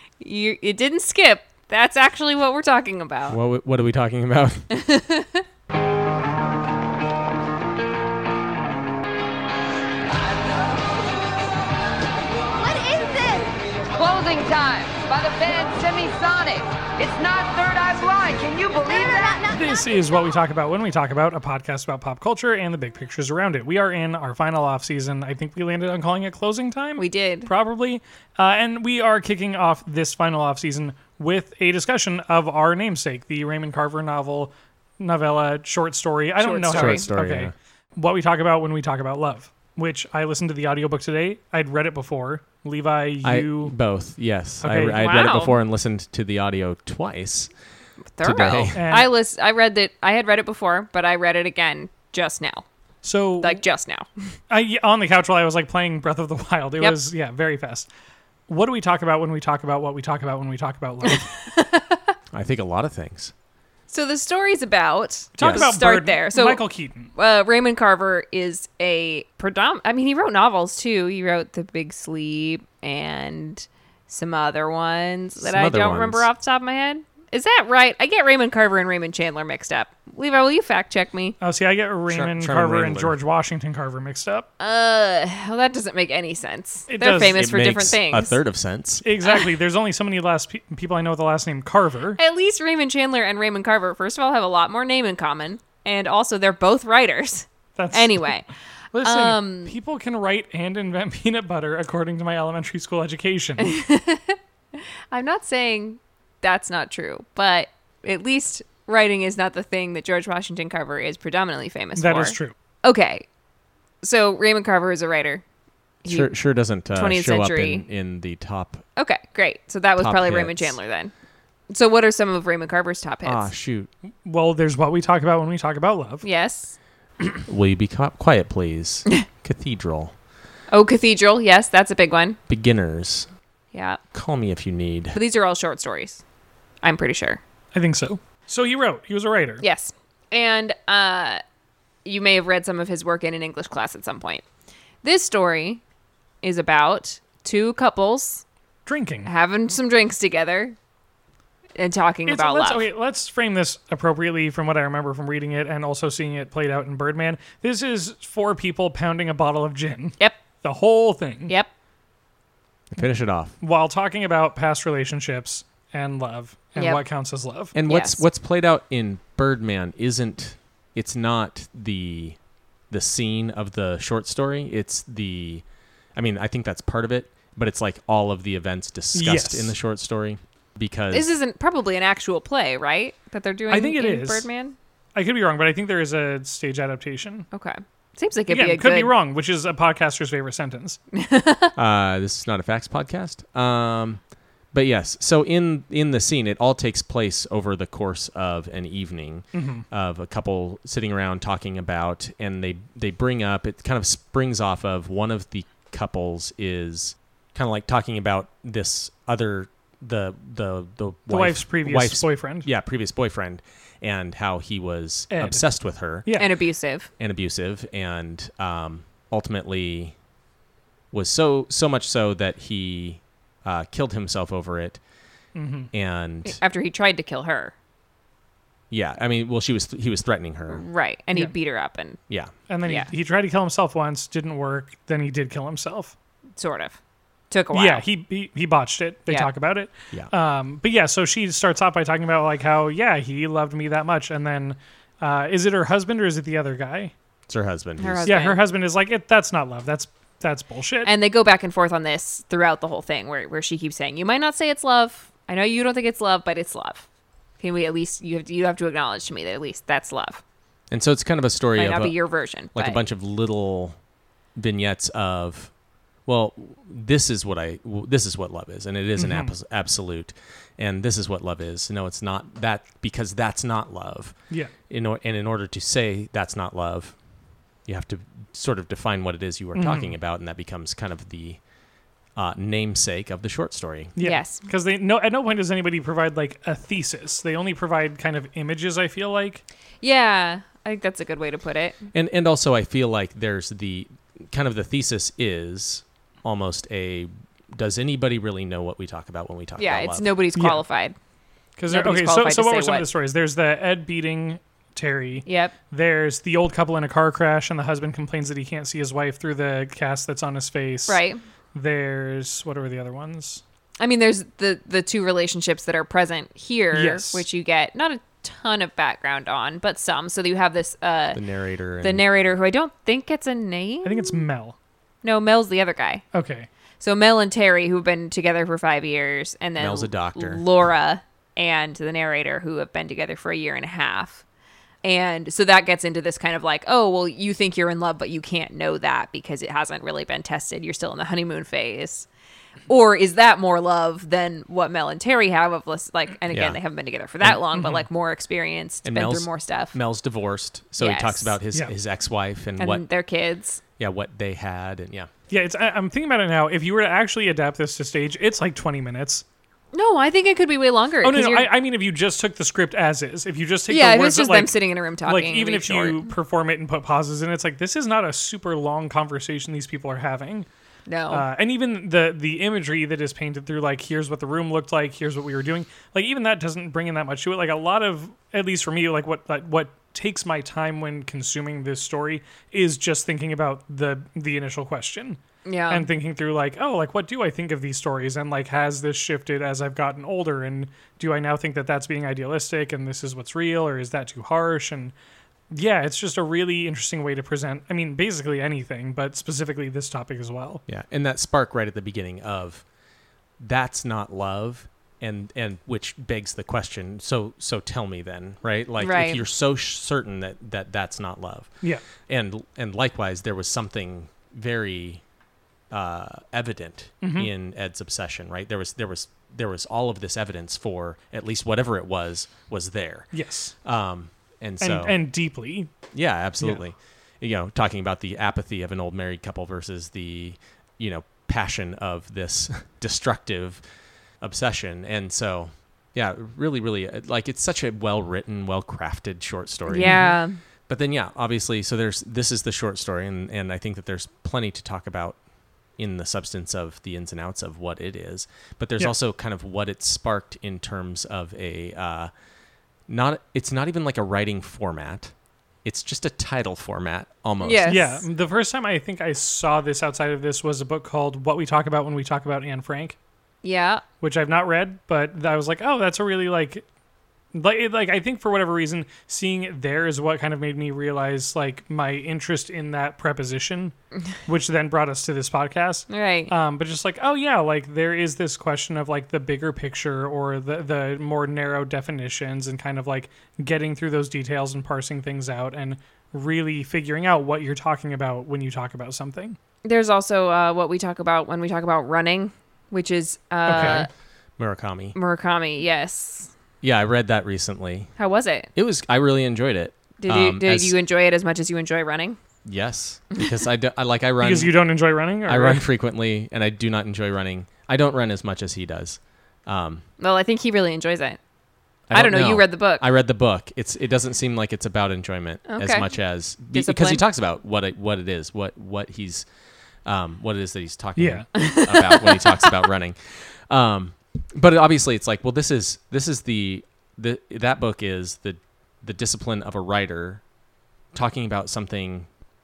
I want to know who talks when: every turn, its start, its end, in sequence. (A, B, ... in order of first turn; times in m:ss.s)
0:00.2-0:03.4 A
0:03.3-0:04.6 B
0:04.7-0:05.4 A
0:12.6-0:13.4 A
0:14.0-0:15.0 A
0:14.2-0:19.2 C
0:15.8-0:16.1 A
0:18.8-0:19.4 A
0:19.4-0:43.7 D
0:27.0-0:27.5 A
0:36.4-0:37.0 A
0:36.7-0:37.5 B
0:43.2-0:47.5 B
0:44.6-0:45.6 D
0:48.2-0:52.6 A
0:48.2-0:48.8 B
0:48.7-0:49.1 D
0:53.0-0:53.6 D
0:53.4-0:54.3 A
0:54.5-0:57.9 D
0:58.5-1:01.3 D
1:01.0-1:02.0 A
1:02.3-1:03.3 B
1:03.9-1:21.4 A
1:05.4-1:07.1 D
1:05.4-1:05.7 B
1:15.4-1:16.3 B
1:21.4-1:24.5 D
1:22.1-1:23.2 B
1:24.6-1:28.4 A
1:26.9-1:27.4 D
1:27.3-1:29.0 B
1:29.0-1:32.2 D
1:29.2-1:29.6 A
1:32.2-1:39.8 A
1:37.8-1:38.3 D
1:38.9-1:43.7 D
1:43.6-1:44.4 A
1:45.1-1:53.2 A
1:52.0-1:52.5 D
1:54.0-1:55.4 A
1:56.0-1:56.3 A
1:56.0-1:58.8 B
1:56.9-1:57.8 A
1:59.0-2:01.1 A
2:00.0-2:00.8 B
2:01.7-2:03.5 A
2:03.2-2:03.9 B
2:04.2-2:06.2 D
2:06.2-2:06.7 A
2:07.5-2:10.1 B
2:10.7-2:12.4 A
2:12.5-2:13.3 B
2:13.7-2:14.0 A
2:14.1-2:15.2 B
2:15.1-2:16.2 A
2:16.8-2:17.4 A
2:17.7-2:19.6 D
2:19.6-2:21.4 A
2:22.0-2:24.4 A
2:25.0-2:25.8 A
2:26.4-2:28.4 A
2:28.8-2:29.3 D
2:29.2-2:30.7 A
2:31.8-2:32.9 A
2:32.2-2:41.5 D
2:42.9-2:43.6 B
2:43.6-2:47.7 D
2:46.8-2:47.0 A
2:47.7-2:52.4 B
2:47.8-2:48.2 A
2:52.9-2:55.6 B
2:56.2-3:01.3 B
2:59.1-2:59.8 D
3:01.1-3:04.8 A
3:03.7-3:04.5 D
3:05.1-3:07.5 D
3:07.5-3:09.1 A
3:08.5-3:11.0 D
3:11.2-3:11.7 A
3:11.8-3:14.2 B
3:14.7-3:36.3 B
3:19.5-3:19.8 D
3:31.3-3:32.7 D
3:35.3-3:35.7 D
3:36.2-3:36.5 D
3:36.4-3:37.1 A
3:37.2-3:40.1 B
3:41.1-3:45.0 B
3:45.5-3:45.9 D
3:45.9-3:46.6 B
3:46.4-3:47.7 A
3:48.9-3:50.8 B
3:50.7-3:52.2 A
3:52.7-3:56.1 D
3:52.8-3:53.1 A
3:56.6-3:57.0 A
3:57.5-3:58.0 A
3:57.7-4:07.1 D
4:07.5-4:08.3 B
4:08.0-4:08.6 A
4:08.3-4:11.1 D
4:11.0-4:17.0 A
4:17.6-4:20.4 A
4:20.9-4:22.2 B
4:21.8-4:23.0 A
4:22.7-4:24.0 B
4:24.6-4:25.7 B
4:26.2-4:34.4 B
4:29.2-4:29.5 D
4:34.9-4:37.2 B
4:37.9-4:41.6 B
4:39.7-4:40.2 D
4:42.4-4:44.1 B
4:44.2-4:49.6 D
4:44.2-4:44.6 A
4:50.0-4:52.0 A
4:52.1-5:00.3 B
4:59.8-5:01.1 A
5:00.5-5:00.8 D
5:01.8-5:11.2 D
5:01.9-5:03.0 A
5:05.4-5:05.8 A
5:11.1-5:11.4 A
5:11.7-5:13.6 D
5:14.0-5:21.4 A
5:16.9-5:17.4 D
5:21.3-5:22.2 B
5:22.0-5:24.4 A
5:24.0-5:24.8 D
5:25.2-5:26.2 A
5:26.3-5:26.7 D
5:27.0-5:34.4 A
5:29.8-5:30.6 B
5:35.0-5:42.3 A
5:42.9-5:50.0 A
5:46.5-5:46.8 B
5:47.7-5:48.0 D
5:49.0-5:53.0 B
5:51.0-5:51.6 A
5:52.8-5:53.8 A
5:54.0-5:55.3 B
5:55.5-5:59.4 D
5:59.9-6:01.7 A
6:01.2-6:10.7 D
6:03.9-6:06.3 A
6:11.1-6:11.4 A
6:11.3-6:35.1 D
6:25.6-6:26.1 A
6:35.7-6:40.8 D
6:40.9-6:42.8 B
6:43.6-6:51.7 B
6:49.0-6:49.4 A
6:52.2-6:55.2 B
6:55.9-7:03.3 B
6:57.2-6:57.5 D
7:03.3-7:03.7 D
7:03.8-7:05.2 B
7:04.8-7:05.9 D
7:06.1-7:13.8 B
7:06.6-7:06.8 D
7:14.4-7:20.2 B
7:19.9-7:20.6 A
7:20.0-7:20.3 D
7:20.9-7:25.4 B
7:26.0-7:32.3 B
7:33.1-7:35.3 B
7:35.8-7:37.9 B
7:37.6-7:38.2 A
7:37.8-7:43.2 D
7:43.6-7:44.0 A
7:44.2-7:46.8 D
7:47.5-7:53.9 D
7:54.5-8:09.6 D
7:56.1-7:56.5 A
8:09.8-8:14.1 A
8:13.6-8:14.1 D
8:14.6-8:15.2 B
8:15.1-8:16.5 A
8:16.8-8:18.1 B
8:18.2-8:18.7 A
8:18.7-8:21.0 B
8:20.2-8:22.4 A
8:22.6-8:24.8 B
8:24.4-8:25.8 D
8:25.4-8:30.0 B
8:30.2-8:31.4 A
8:32.1-8:39.4 B
8:32.1-8:33.0 A
8:35.7-8:36.1 A
8:36.7-8:37.2 A
8:40.0-8:50.4 B
8:41.2-8:41.5 D
8:41.6-8:42.8 A
8:51.1-8:52.3 B